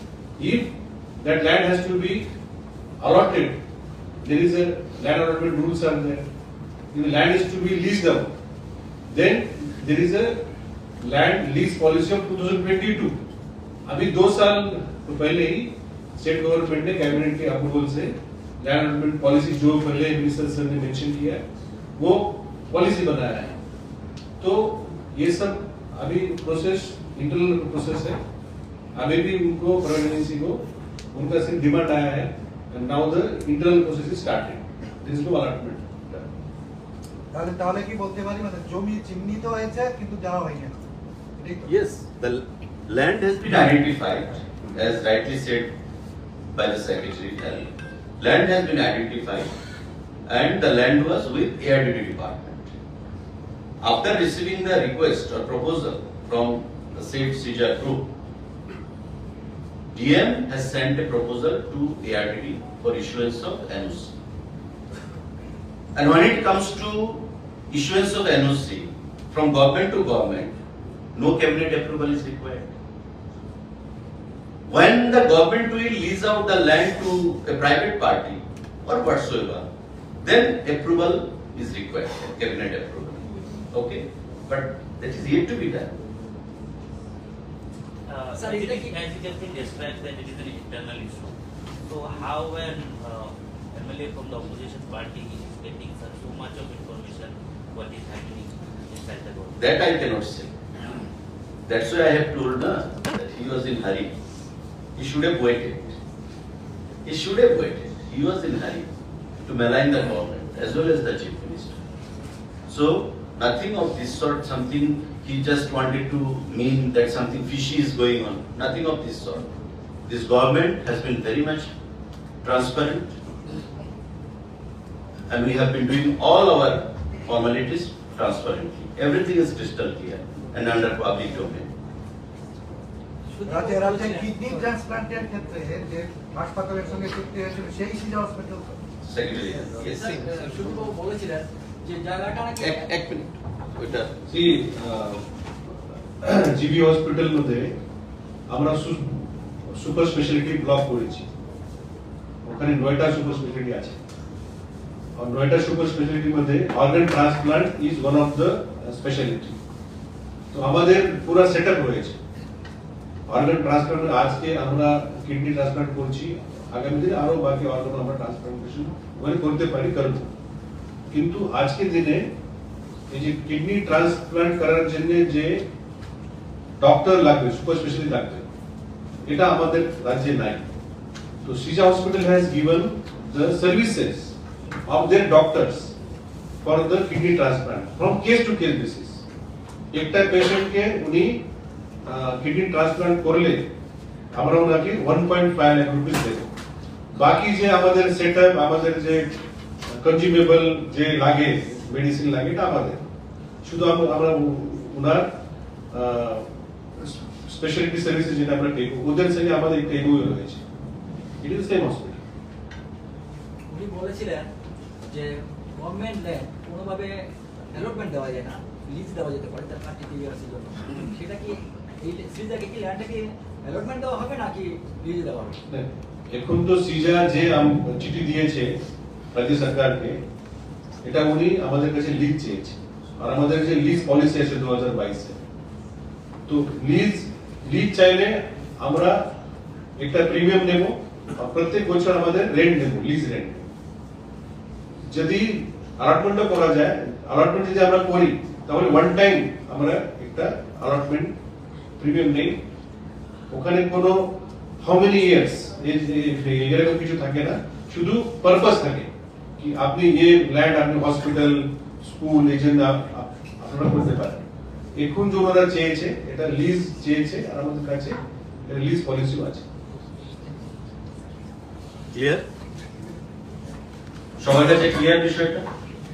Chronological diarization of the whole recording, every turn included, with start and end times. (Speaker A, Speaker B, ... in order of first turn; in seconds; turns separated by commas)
Speaker A: 0.4-2.3, Speaker A: 3.0-3.6, Speaker A: 4.2-6.3, Speaker A: 6.9-8.3, Speaker A: 9.1-10.4, Speaker A: 11.0-13.2, Speaker A: 13.9-21.4, Speaker A: 22.0-23.6, Speaker A: 24.4-28.2, Speaker A: 28.9-36.3, Speaker B: 37.3-40.8, Speaker B: 41.4-41.6, Speaker C: 41.6-45.7, Speaker C: 46.5-49.5, Speaker C: 50.3-52.7, Speaker C: 53.8-58.1, Speaker C: 59.9-64.1, Speaker C: 65.9-70.5, Speaker C: 71.1-72.7, Speaker C: 74.7-79.7, Speaker C: 80.2-85.9, Speaker D: 88.1-91.3, Speaker E: 88.3-89.0, Speaker D: 91.9-99.6, Speaker C: 99.6-100.5, Speaker C: 101.7-104.1, Speaker C: 105.0-106.0, Speaker C: 107.0-108.9, Speaker C: 109.4-111.8, Speaker C: 112.7-119.5, Speaker C: 120.1-121.7, Speaker C: 122.4-123.1, Speaker C: 125.3-131.7, Speaker E: 133.3-134.8, Speaker B: 133.5-138.8, Speaker C: 139.0-140.3, Speaker E: 139.5-143.0, Speaker C: 142.6-144.2, Speaker A: 144.3-147.8, Speaker A: 148.5-151.3, Speaker A: 152.4-154.0, Speaker A: 155.1-159.6, Speaker A: 160.5-162.2, Speaker A: 163.3-170.3, Speaker A: 171.1-172.3, Speaker A: 173.1-175.7, Speaker A: 176.8-178.5, Speaker A: 179.2-180.7, Speaker A: 181.4-184.4, Speaker A: 184.9-185.9, Speaker A: 186.6-189.2, Speaker A: 189.9-191.5, Speaker A: 192.1-193.7, Speaker A: 194.3-196.5, Speaker A: 197.1-203.1, Speaker A: 203.6-205.4, Speaker A: 205.9-210.6, Speaker A: 211.4-212.2, Speaker E: 213.7-214.5, Speaker E: 215.1-225.6, Speaker A: 225.7-228.8, Speaker A: 229.3-230.2, Speaker A: 231.0-235.4, Speaker A: 236.5-239.3, Speaker A: 240.0-243.7, Speaker A: 245.1-251.3, Speaker A: 252.0-252.6, Speaker A: 253.5-269.6, Speaker C: 272.1-272.4, Speaker C: 274.4-275.7